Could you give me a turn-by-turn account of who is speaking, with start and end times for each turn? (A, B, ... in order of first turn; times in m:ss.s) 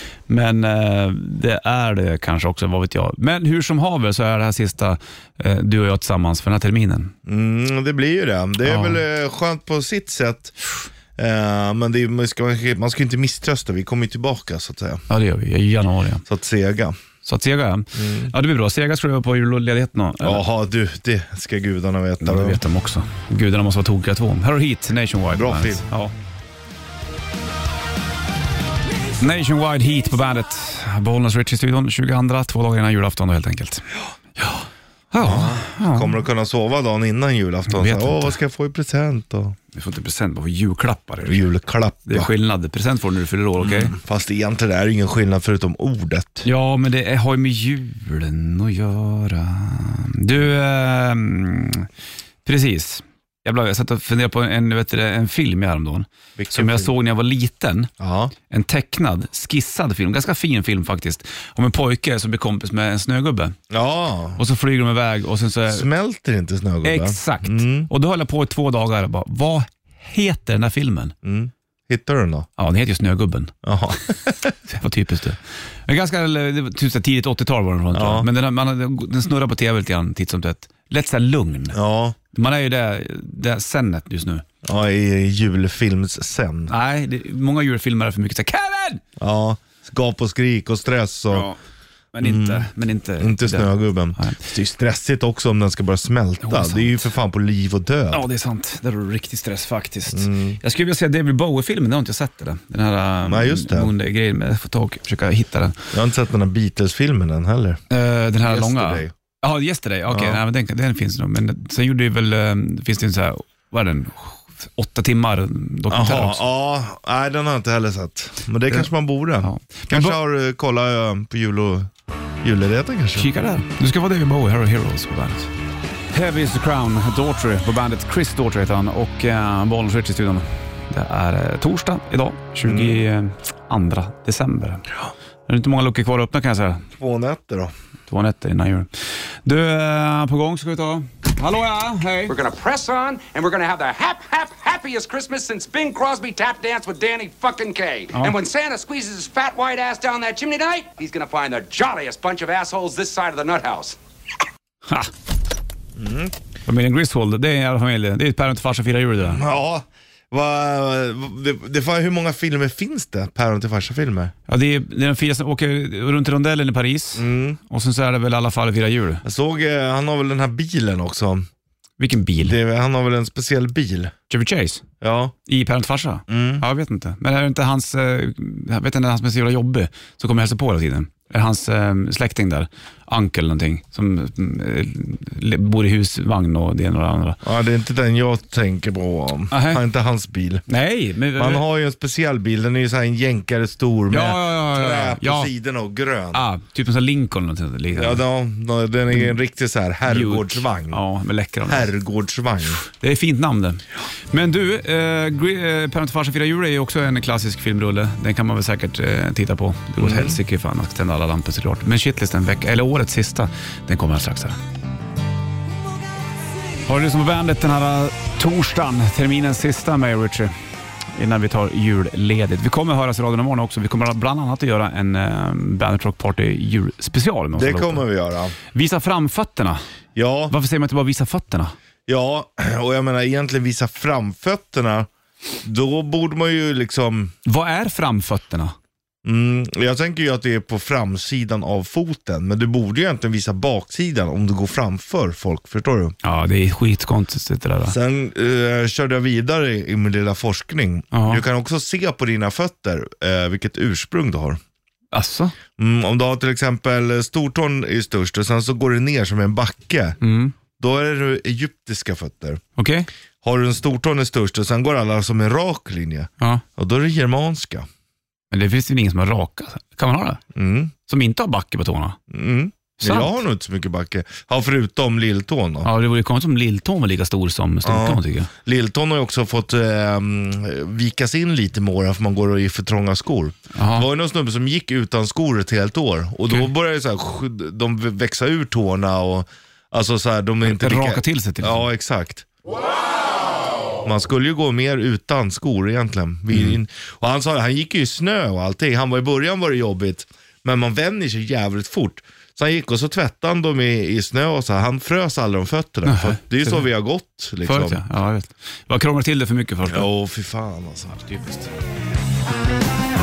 0:00.3-0:07.1 A
0:07.3-0:10.6 B
0:08.6-0:09.0 A
0:11.2-0:15.0 B
0:15.1-0:16.2 A
0:16.3-0:17.0 B
0:17.2-0:20.4 A
0:18.0-0:18.3 B
0:20.2-0:22.6 B
0:22.2-0:26.1 A
0:25.3-0:25.8 B
0:29.2-0:33.9 A
0:35.1-0:36.2 A
0:35.2-0:39.6 B
0:37.7-0:38.4 A
0:39.7-0:41.4 A
0:41.2-0:42.3 B
0:42.1-0:44.0 A
0:43.6-0:46.5 B
0:46.4-0:51.9 A
0:52.4-0:57.9 A
0:56.4-0:56.9 B
0:58.0-0:58.3 B
0:58.5-1:03.6 A
1:03.7-1:04.4 B
1:04.4-1:05.9 A
1:05.7-1:07.9 B
1:06.8-1:11.1 A
1:11.2-1:12.5 B
1:12.6-1:13.5 A
1:13.6-1:14.6 B
1:14.7-1:21.8 A
1:17.9-1:18.3 B
1:21.7-1:22.2 B
1:22.3-1:24.4 A
1:24.6-1:26.7 B
1:26.7-1:29.0 A
1:29.2-1:31.5 B
1:31.3-1:31.6 A
1:32.1-1:34.5 A
1:32.2-1:32.7 B
1:33.2-1:38.2 B
1:36.4-1:37.1 A
1:38.1-1:45.9 A
1:40.1-1:40.6 B
1:43.3-1:43.9 B
1:45.9-1:47.8 B
1:47.9-1:56.4 A
1:48.4-1:49.1 B
1:50.1-1:50.4 B
1:55.9-2:01.9 B
1:59.4-2:00.2 A
2:02.4-2:03.3 B
2:03.2-2:05.5 A
2:06.1-2:14.9 A
2:12.7-2:13.0 B
2:15.5-2:16.8 A
2:17.0-2:17.7 B
2:18.1-2:18.9 A
2:19.4-2:22.3 A
2:22.3-2:34.0 C
2:36.0-2:36.3 B
2:36.7-2:39.4 A
2:39.2-2:44.3 B
2:44.5-2:49.2 A
2:47.2-2:47.6 B
2:49.2-2:51.5 B
2:52.0-2:52.6 A
2:52.4-2:54.1 B
2:54.3-2:54.8 A
2:55.0-2:55.3 B
2:55.5-3:07.4 A
2:56.3-2:56.6 B
3:07.4-3:10.6 B
3:09.5-3:09.8 A
3:10.7-3:11.6 A
3:11.4-3:16.4 B
3:14.1-3:15.5 A
3:16.3-3:18.2 A
3:17.9-3:21.0 B
3:20.1-3:21.9 A
3:21.7-3:22.8 B
3:22.7-3:34.6 A
3:30.0-3:30.4 B
3:36.9-3:40.5 A
3:41.2-3:48.0 A
3:47.6-3:48.6 B
3:48.7-3:49.8 A
3:50.2-3:50.5 B
3:50.5-3:51.8 A
3:52.1-3:55.1 B
3:55.6-3:57.3 B
3:57.4-3:58.8 A
3:59.2-4:06.1 B
4:06.2-4:07.9 A
4:07.9-4:14.6 B
4:11.1-4:11.4 A
4:15.1-4:15.6 A
4:15.8-4:20.2 B
4:20.2-4:20.5 A
4:20.8-4:22.6 B
4:22.8-4:23.1 A
4:23.4-4:27.9 B
4:28.5-4:30.4 A
4:30.5-4:30.9 B
4:31.1-4:32.2 A
4:32.3-4:35.9 B
4:33.0-4:33.4 A
4:35.8-4:38.5 A
4:37.8-4:52.4 B
4:43.8-4:44.1 A
4:50.6-4:51.8 A
4:54.0-5:08.0 B
5:06.0-5:06.9 A
5:07.6-5:10.1 A
5:09.9-5:11.7 B